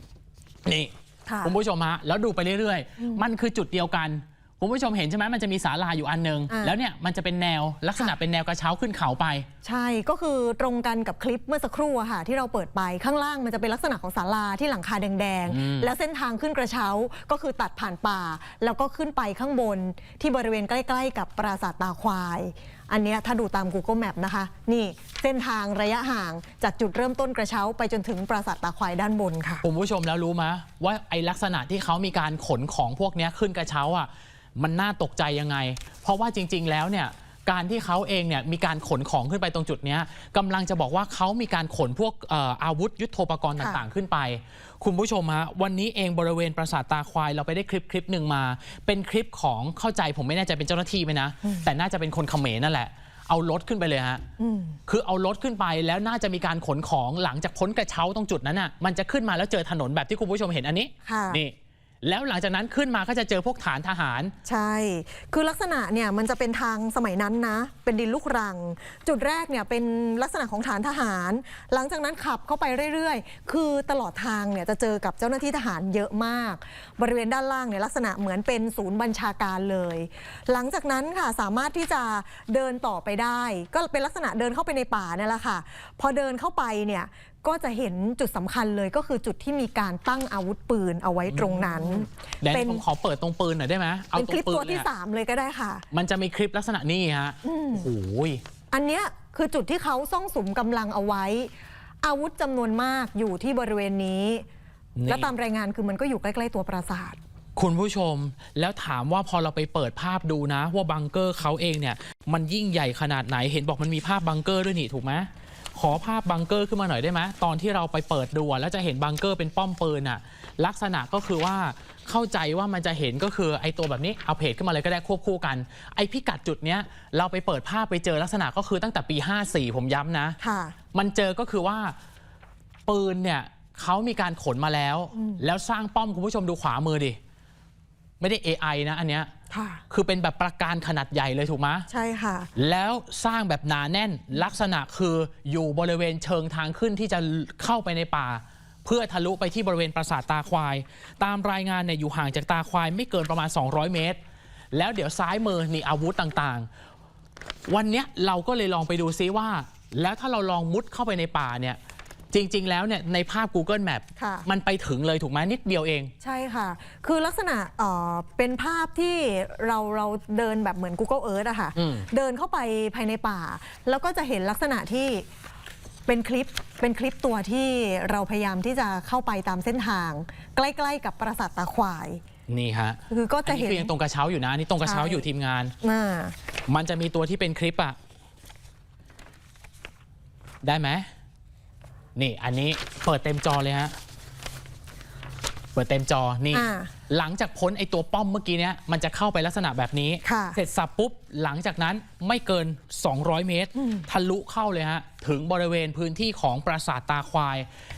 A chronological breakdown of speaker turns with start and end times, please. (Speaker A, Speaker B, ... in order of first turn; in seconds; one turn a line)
Speaker A: 0.7-9.5
Speaker B: 1.3-1.5
Speaker B: 9.6-29.6
Speaker A: 15.5-15.9
Speaker A: 29.6-54.2
Speaker B: 54.4-54.8
Speaker A: 54.9-64.3
Speaker B: 61.0-61.4
Speaker B: 64.4-92.8
Speaker A: 91.3-94.8
Speaker B: 94.1-95.8
Speaker A: 95.9-98.4
Speaker B: 97.4-97.9
Speaker B: 98.7-104.5
Speaker A: 105.0-105.3
Speaker B: 105.1-107.2
Speaker A: 107.5-130.4
Speaker B: 130.4-130.8
Speaker A: 130.9-131.9
Speaker A: 132.9-137.2
Speaker B: 135.1-135.4
Speaker A: 138.2-139.3
Speaker B: 139.5-139.8
Speaker A: 139.9-141.9
Speaker B: 141.9-142.5
Speaker A: 142.6-154.2
Speaker A: 154.7-156.7
Speaker A: 157.7-161.8
Speaker A: 162.3-166.1
Speaker B: 164.2-164.5
Speaker B: 166.2-175.3
Speaker A: 171.8-172.1
Speaker B: 176.1-182.2
Speaker A: 182.5-185.7
Speaker B: 183.1-183.9
Speaker B: 184.8-185.2
Speaker B: 185.8-186.3
Speaker A: 186.7-188.0
Speaker A: 190.6-191.1
Speaker A: 192.2-193.9
Speaker A: 195.7-207.7
Speaker B: 196.5-196.9
Speaker B: 200.2-200.6
Speaker B: 203.8-204.1